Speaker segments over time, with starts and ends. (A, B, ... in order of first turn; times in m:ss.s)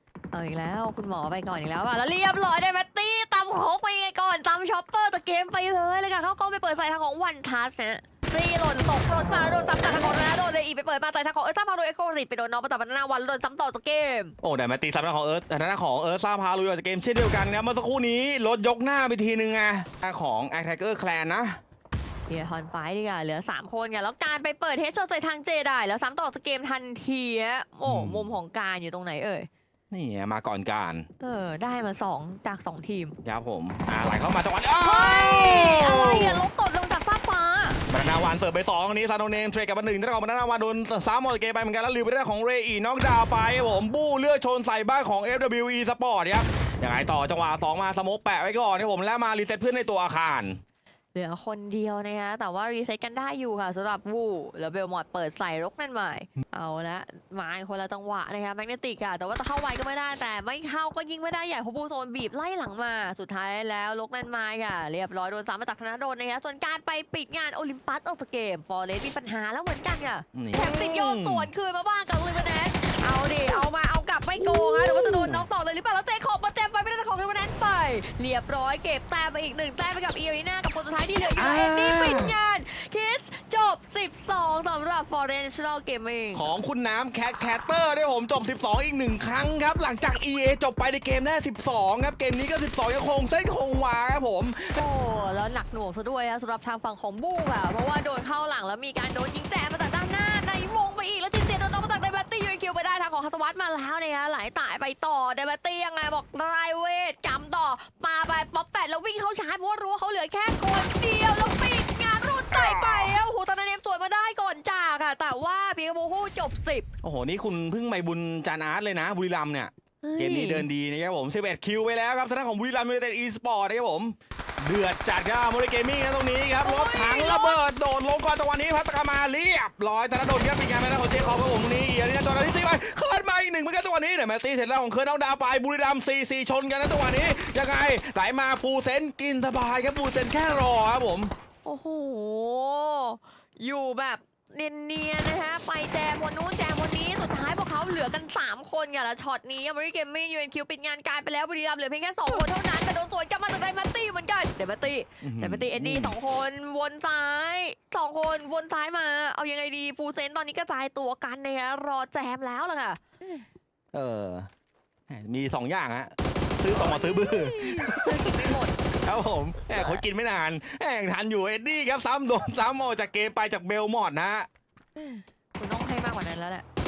0:00.3-0:14.3 A
0:09.1-0:10.1 B
0:14.4-0:21.6 B
0:22.3-0:29.5 A
0:27.9-0:28.3 B
0:29.9-0:31.1 B
0:31.2-0:33.2 A
0:33.2-0:36.4 B
0:34.8-0:37.8 A
0:37.9-0:50.6 B
0:51.2-1:26.4 A
1:10.3-1:11.5 B
1:14.4-1:15.5 B
1:21.2-1:22.4 B
1:26.3-1:34.8 B
1:34.8-1:56.9 A
1:52.5-1:53.2 B
1:57.0-2:21.3 B
2:00.0-2:00.7 A
2:06.6-2:07.6 A
2:21.6-2:43.4 A
2:35.2-2:36.2 B
2:43.9-2:44.5 B
2:45.1-2:48.5 B
2:46.7-2:48.8 A
2:49.0-2:54.5 B
2:49.7-2:50.0 A
2:55.0-2:56.6 A